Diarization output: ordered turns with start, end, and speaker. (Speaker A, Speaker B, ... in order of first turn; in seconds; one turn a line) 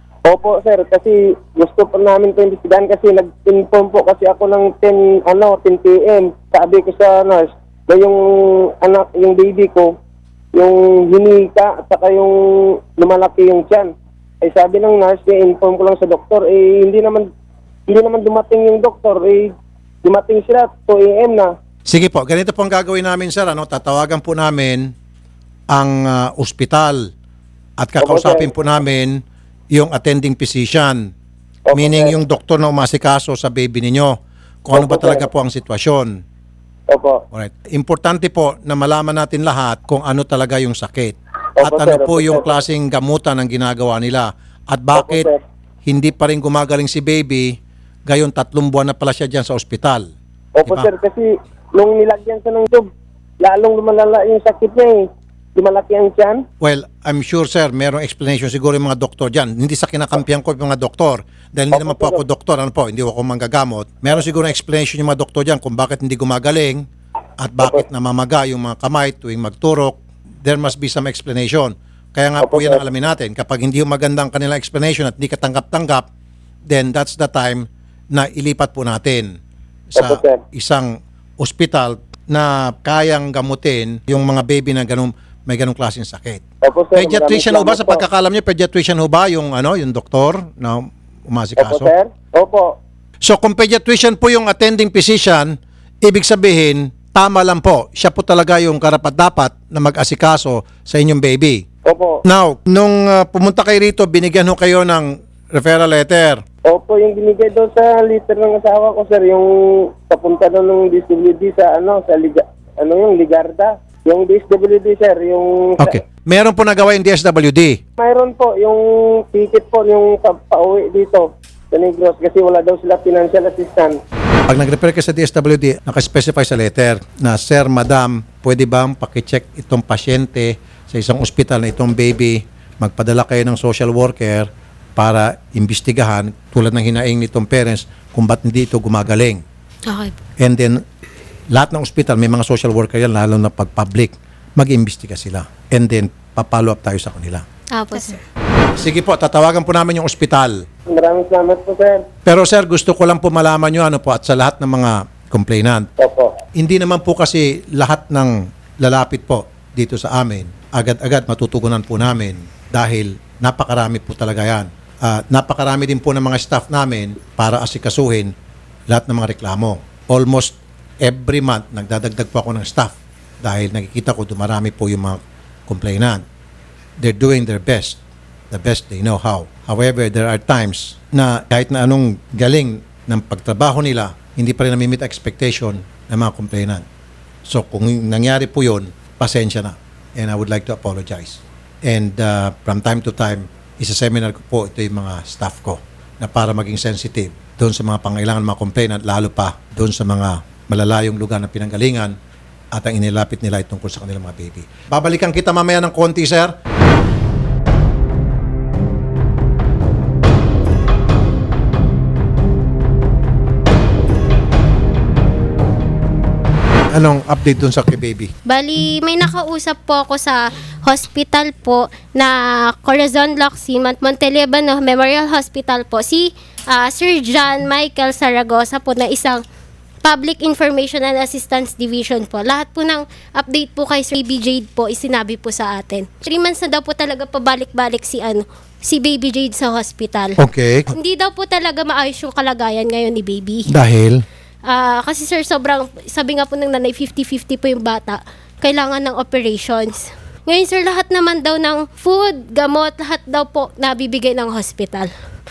Speaker A: 0.2-9.9
Speaker A: 10.5-17.3
Speaker A: 17.9-21.5
Speaker B: 21.9-24.9
Speaker B: 25.7-27.1
Speaker B: 27.8-29.2
Speaker A: 28.0-28.5
Speaker B: 29.7-31.1
Speaker A: 31.7-32.1
Speaker B: 31.7-36.1
Speaker A: 34.7-35.3
Speaker A: 36.9-37.2
Speaker B: 37.3-45.3
Speaker A: 41.6-42.5
Speaker A: 44.9-45.4
Speaker B: 45.8-47.5
Speaker B: 48.1-50.1
Speaker A: 50.5-52.9
Speaker A: 53.4-56.4
Speaker B: 56.6-66.9
Speaker A: 61.7-62.2
Speaker B: 67.4-76.1
Speaker A: 72.4-72.8
Speaker B: 76.7-79.4
Speaker B: 79.9-86.4
Speaker A: 80.0-80.4
Speaker A: 86.6-88.0
Speaker B: 86.9-91.9
Speaker A: 91.6-92.7
Speaker B: 93.2-101.6
Speaker A: 101.8-102.2
Speaker B: 102.2-106.4
Speaker A: 106.6-116.0
Speaker B: 115.8-117.8
Speaker A: 118.0-124.0
Speaker B: 124.5-139.4
Speaker C: 139.9-140.2
Speaker B: 140.4-140.8
Speaker B: 141.5-147.4
Speaker C: 147.7-148.2
Speaker B: 148.8-150.6
Speaker A: 150.9-152.0
Speaker B: 152.2-155.9
Speaker A: 156.0-156.3
Speaker B: 156.6-168.3
Speaker B: 168.9-176.2
Speaker B: 177.0-186.8
Speaker B: 187.5-202.2
Speaker B: 202.7-206.5
Speaker B: 216.9-218.3
Speaker C: 218.5-229.4
Speaker C: 230.0-240.4
Speaker B: 240.4-240.9
Speaker C: 240.9-243.7
Speaker B: 243.7-244.2
Speaker C: 244.7-255.1